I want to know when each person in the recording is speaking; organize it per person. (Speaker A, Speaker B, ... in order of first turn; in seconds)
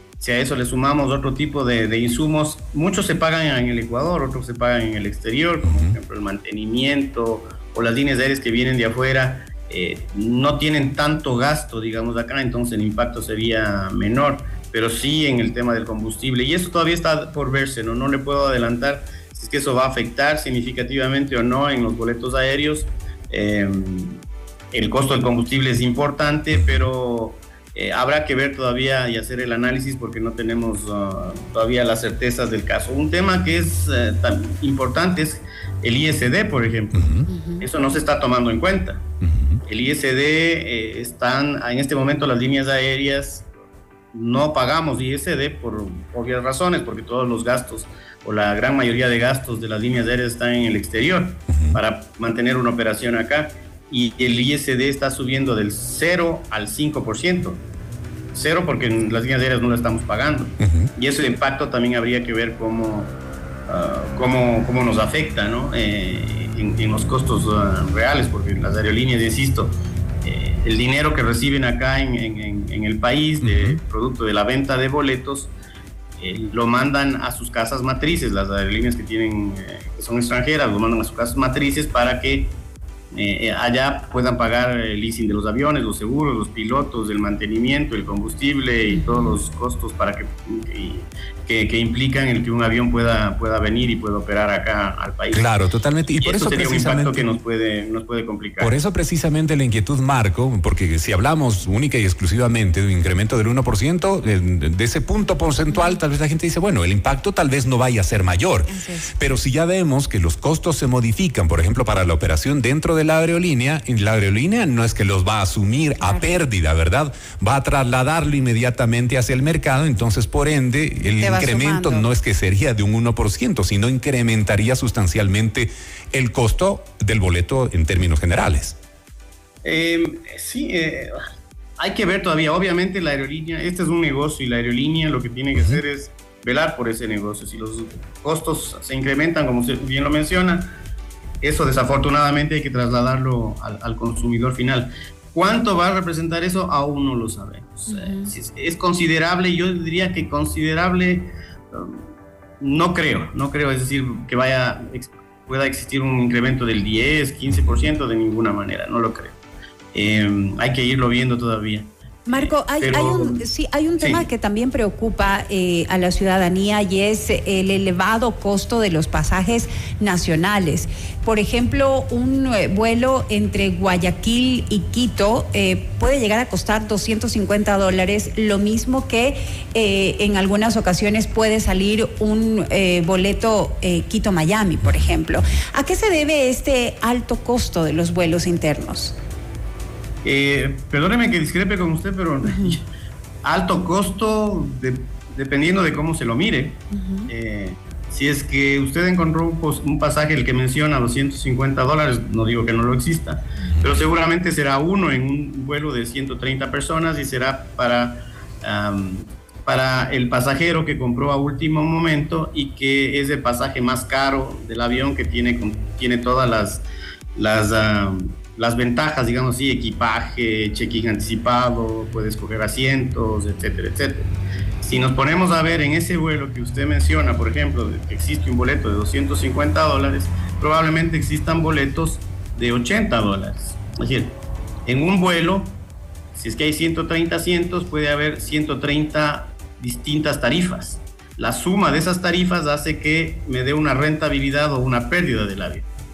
Speaker A: 0.2-24.2, 24.7-37.0, 37.6-39.0, 39.7-43.5, 44.1-57.6, 58.3-63.2, 63.7-75.5, 76.2-82.5, 83.1-95.5, 96.2-98.8, 129.6-131.1, 131.8-140.7, 141.4-152.0, 152.6-159.4, 159.9-163.4, 164.0-164.3, 190.2-192.8, 193.4-216.8, 217.3-224.3, 224.8-235.8, 236.3-245.9
Speaker B: 5.7-5.9, 36.9-37.3, 39.2-39.6, 51.5-51.8, 60.6-60.9, 73.4-73.8, 95.3-97.2, 98.6-128.8
Speaker C: 37.3-37.6, 88.9-89.3, 105.7-106.0, 108.7-109.1, 116.0-116.3, 121.2-122.1, 147.9-148.3, 162.3-189.2, 192.5-192.8, 196.9-197.3